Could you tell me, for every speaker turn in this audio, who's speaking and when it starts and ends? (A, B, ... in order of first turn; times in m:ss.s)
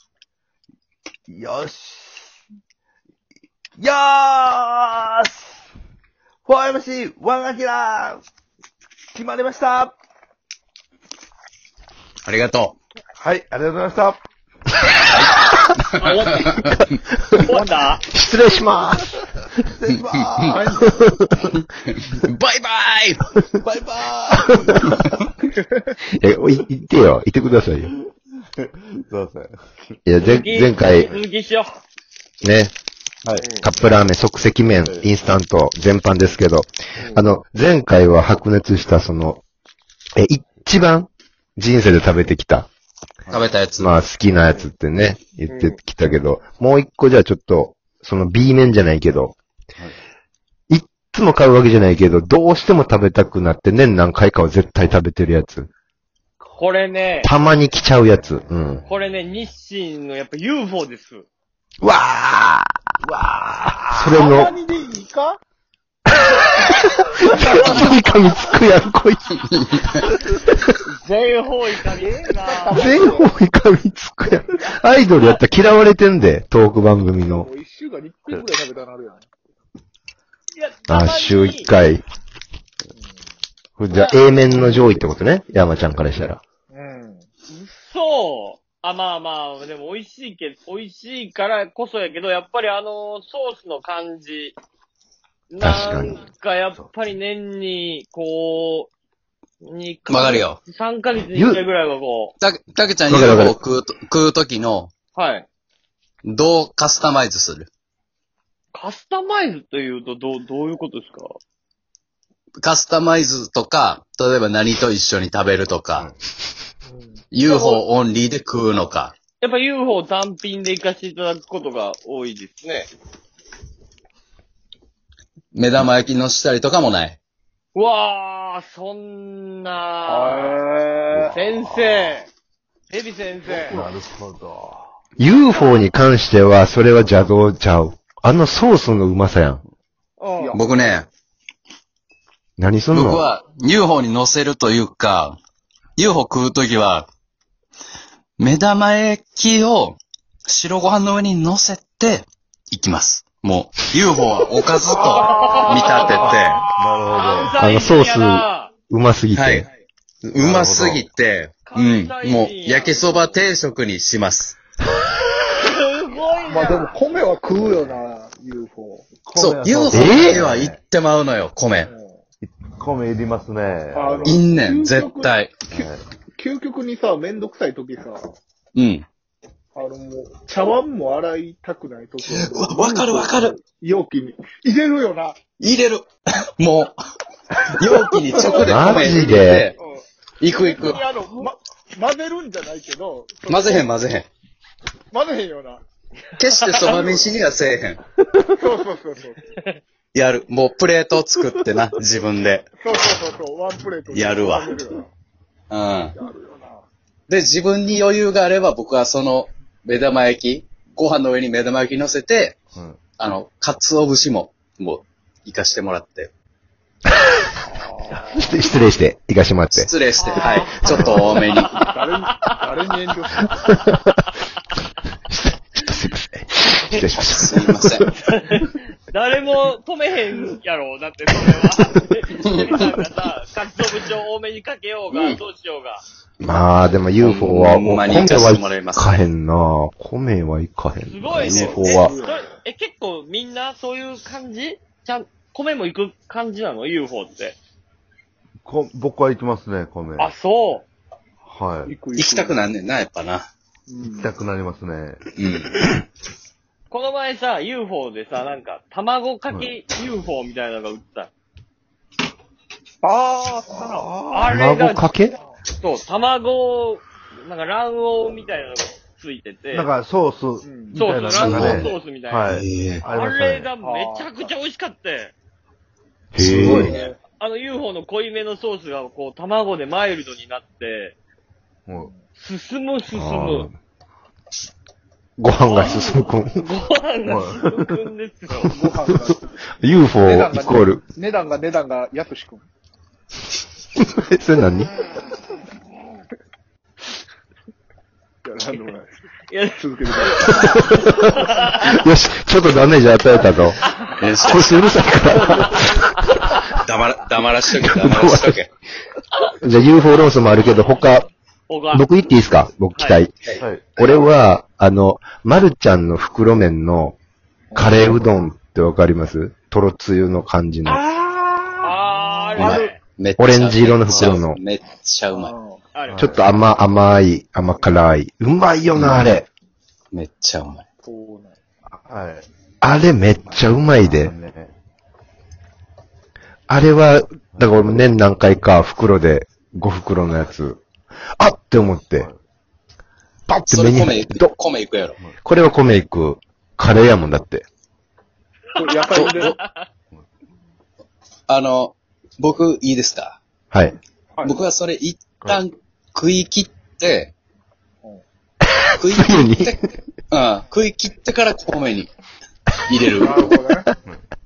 0:01.3-0:02.4 A
0:03.8-0:05.7 A
0:06.5-0:08.2 A
0:09.1-0:10.0 A
0:12.2-0:12.8 B
0:13.2-0:14.2 A
0:15.1-0:16.8 B
0:16.0-0:16.6 C
0:16.7-0:19.7 D
0:17.5-0:18.0 C
0:17.5-0:18.0 E
0:19.7-0:20.8 A
0:19.9-0:20.6 B
0:20.4-0:21.0 E
0:20.8-0:21.5 D
0:21.5-0:23.3 B
0:23.6-0:24.9 A
0:24.5-0:24.9 D
0:25.4-0:25.9 E
0:26.1-0:27.9 D
0:28.6-0:29.6 A
0:30.1-0:31.2 D
0:30.2-0:31.8 C
0:32.4-0:32.7 D
0:33.6-0:39.4 D
0:40.2-0:42.7 D
0:43.3-0:44.0 B
0:43.8-0:49.4 D
0:50.7-0:55.7 D
0:56.6-0:57.3 C
0:57.2-0:58.8 D
0:58.9-1:01.3 C
1:01.8-1:02.8 D
1:03.1-1:03.9 A
1:03.9-1:04.5 D
1:04.2-1:05.4 E
1:06.1-1:09.4 D
1:07.2-1:08.0 E
1:09.5-1:10.1 B
1:10.3-1:10.7 D
1:10.8-1:12.9 C
1:12.0-1:13.3 E
1:12.7-1:17.5 D
1:17.2-1:19.3 E
1:20.5-1:21.7 C
1:20.9-1:22.0 D
1:23.8-1:26.4 D
1:23.9-1:24.3 C
1:26.7-1:27.3 E
1:27.5-1:34.6 C
1:35.5-1:38.9 C
1:35.6-1:36.2 D
1:39.6-1:42.4 C
1:40.1-1:40.6 B
1:41.2-1:41.6 D
1:42.4-1:44.9 B
1:43.1-1:43.6 D
1:45.2-1:45.5 C
1:46.2-1:47.7 B
1:48.7-1:51.4 C
1:52.6-1:56.1 B
1:56.9-1:57.2 E
1:57.3-1:59.2 B
1:57.4-1:57.8 C
1:59.4-2:02.9 C
2:05.5-2:07.2 B
2:07.7-2:10.6 C
2:10.1-2:11.4 E
2:11.1-2:12.2 A
2:11.3-2:12.3 C
2:12.9-2:13.8 C
2:13.4-2:14.9 A
2:15.2-2:19.6 D
2:20.2-2:20.6 C
2:20.4-2:21.0 E
2:20.5-2:21.1 B
2:22.6-2:23.3 D
2:22.9-2:25.4 B
2:26.0-2:27.1 B
2:28.4-2:36.6 B
2:34.9-2:36.4 C
2:36.1-2:37.6 A
2:37.1-2:38.7 C
2:37.6-2:39.7 D
2:39.3-2:39.7 B
2:40.2-2:44.6 B
2:40.3-2:41.1 A
2:41.6-2:43.5 C
2:45.6-2:46.9 C
2:46.5-2:49.1 E
2:49.2-2:50.8 A
2:49.4-2:51.9 B
2:49.9-2:50.5 D
2:51.8-2:52.2 E
2:52.4-2:54.4 A
2:53.9-2:58.2 E
2:54.2-2:55.6 B
2:55.7-2:56.0 A
2:58.8-2:59.1 B
2:59.8-3:05.4 E
3:02.3-3:03.6 B
3:05.6-3:07.0 B
3:07.7-3:09.8 B
3:08.4-3:14.0 E
3:08.6-3:09.6 D
3:10.4-3:11.1 B
3:13.5-3:14.3 B
3:15.1-3:15.8 E
3:16.4-3:18.0 B
3:16.8-3:17.3 E
3:18.4-3:19.4 E
3:20.1-3:22.7 B
3:22.8-3:25.1 E
3:24.1-3:24.8 B
3:25.7-3:26.2 B
3:26.1-3:26.9 E
3:27.3-3:32.6 B
3:32.7-3:33.0 A
3:33.2-3:36.3 B
3:37.7-3:38.6 E
3:38.3-3:39.9 D
3:39.7-3:41.8 B
3:40.2-3:41.9 C
3:40.8-3:41.4 D
3:41.9-3:43.8 E
3:43.8-3:44.1 D
3:45.3-3:48.1 D
3:47.0-3:48.2 B
3:48.3-3:56.0 C
3:52.4-3:52.7 B
3:55.1-3:55.4 B
3:56.4-4:02.2 D
3:57.2-3:59.2 B
4:01.0-4:07.6 C
4:01.4-4:01.9 B
4:01.7-4:02.4 E
4:08.6-4:10.3 A
4:10.2-4:10.9 C
4:11.4-4:12.0 A
4:11.9-4:12.6 E
4:12.1-4:13.5 B
4:13.9-4:14.3 E
4:14.1-4:15.2 A
4:15.4-4:16.0 B
4:16.9-4:21.3 C
4:23.0-4:24.6 E
4:23.7-4:24.5 A
4:24.3-4:25.1 C
4:24.5-4:25.4 D
4:25.8-4:29.9 C
4:29.7-4:33.7 A
4:30.6-4:31.1 E
4:31.0-4:32.5 C
4:31.3-4:31.9 B
4:32.5-4:33.0 B
4:33.0-4:35.3 C
4:33.8-4:34.5 E
4:36.4-4:36.9 D
4:36.4-4:36.9 A
4:36.6-4:37.0 B
4:36.8-4:37.2 E
4:36.9-4:41.2 C
4:41.9-4:42.1 A
4:42.4-4:43.7 C
4:43.1-4:43.8 D
4:45.4-4:46.6 D
4:45.6-4:48.7 C
4:47.3-4:48.0 A
4:48.6-4:49.5 E
4:48.6-4:51.0 D
4:50.2-4:52.6 E
4:54.0-4:54.9 D
4:58.4-4:59.1 E
4:59.5-4:59.8 C
4:59.7-5:02.0 E
5:00.4-5:03.8 D
5:04.2-5:04.8 B
5:04.4-5:06.7 D
5:06.8-5:08.7 B
5:07.7-5:08.6 D
5:09.6-5:11.3 D
5:11.7-5:12.1 C
5:11.9-5:13.3 D
5:13.0-5:13.2 C
5:13.6-5:14.0 A
5:14.0-5:17.2 D
5:17.7-5:18.1 E
5:17.8-5:21.0 D
5:21.0-5:21.9 E
5:21.8-5:23.0 C
5:22.6-5:25.5 B
5:22.6-5:22.9 E
5:23.4-5:24.6 D
5:25.3-5:25.8 E
5:25.9-5:26.2 C
5:26.1-5:26.5 A
5:26.2-5:29.5 D
5:28.9-5:29.4 B
5:30.1-5:30.9 B
5:31.0-5:31.6 E
5:31.9-5:32.5 A
5:32.8-5:34.3 D
5:33.4-5:34.7 A
5:36.7-5:40.8 D
5:37.5-5:37.8 A
5:41.4-5:42.3 D
5:43.5-5:44.5 D
5:43.7-5:45.2 B
5:45.4-5:47.6 D
5:48.8-5:49.6 E
5:49.1-5:49.5 B
5:49.1-5:49.6 C
5:51.5-5:53.4 B
5:53.7-5:54.0 D
5:54.4-5:57.3 B
5:58.7-6:00.0 D
5:59.0-6:02.1 B
6:02.9-6:03.6 B
6:03.2-6:03.9 E